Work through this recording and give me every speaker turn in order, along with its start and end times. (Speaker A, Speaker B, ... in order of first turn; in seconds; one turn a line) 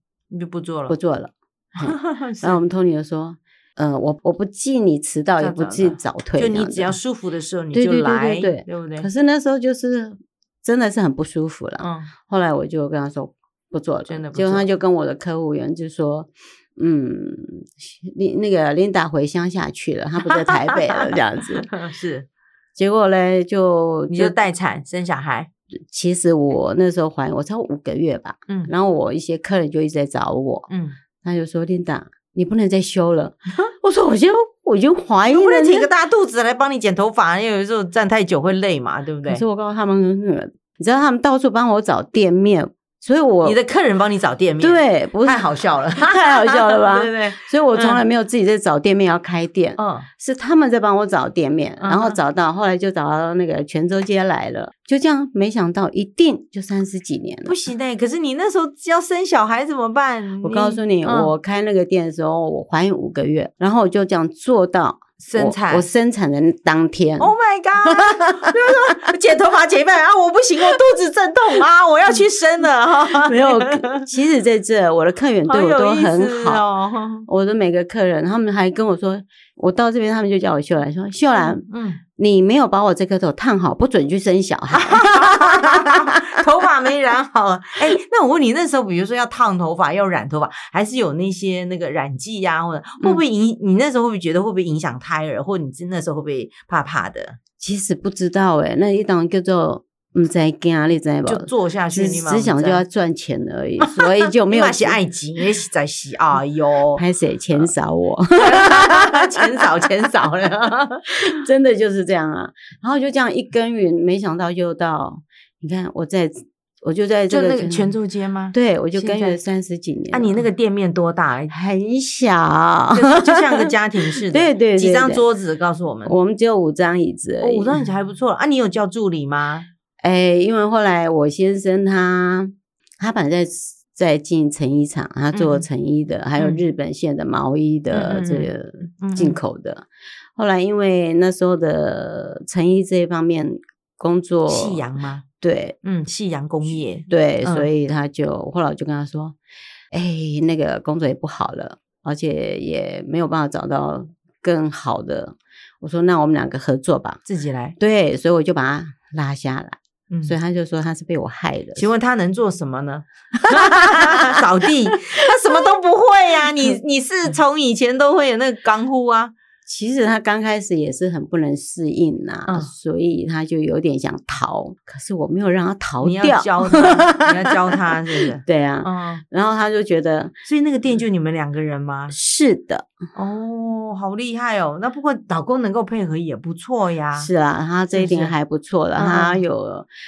Speaker A: 0.3-0.9
Speaker B: 0.9-7.0
Speaker A: 1.8-2.6
Speaker A: 5.4-9.1
Speaker B: 7.7-21.7
Speaker A: 11.8-12.1
Speaker A: 14.1-14.7
Speaker A: 20.2-22.3
Speaker B: 22.8-24.4
Speaker A: 24.1-25.5
Speaker B: 25.9-30.7
Speaker A: 30.7-31.0
Speaker B: 31.2-35.9
Speaker A: 35.3-39.4
Speaker B: 39.3-43.6
Speaker A: 43.4-48.0
Speaker B: 44.6-57.6
Speaker A: 49.8-50.1
Speaker A: 51.8-52.2
Speaker A: 57.5-61.3
Speaker B: 60.4-69.1
Speaker A: 65.2-65.9
Speaker A: 67.2-74.0
Speaker B: 73.1-76.6
Speaker A: 75.5-77.3
Speaker B: 77.3-81.7
Speaker A: 81.3-82.0
Speaker B: 82.2-86.4
Speaker A: 84.7-97.4
Speaker B: 97.6-105.0
Speaker A: 101.3-102.8
Speaker A: 103.8-107.0
Speaker B: 107.0-109.8
Speaker A: 108.4-111.2
Speaker B: 111.1-118.0
Speaker A: 117.3-119.4
Speaker B: 118.5-120.5
Speaker A: 120.1-121.5
Speaker B: 121.5-125.2
Speaker A: 122.9-126.2
Speaker B: 126.1-127.8
Speaker A: 127.4-129.7
Speaker B: 130.0-144.8
Speaker A: 135.3-135.7
Speaker A: 137.9-139.4
Speaker A: 144.5-145.2
Speaker B: 145.4-145.8
Speaker A: 145.8-147.7
Speaker B: 147.1-149.4
Speaker B: 149.9-157.2
Speaker A: 157.3-157.8
Speaker B: 157.8-161.9
Speaker A: 161.8-169.3
Speaker B: 163.4-165.4
Speaker B: 169.7-180.3
Speaker A: 176.0-179.2
Speaker A: 180.4-182.2
Speaker B: 182.1-182.9
Speaker A: 183.2-187.3
Speaker B: 187.2-189.9
Speaker A: 187.9-188.3
Speaker A: 189.0-189.4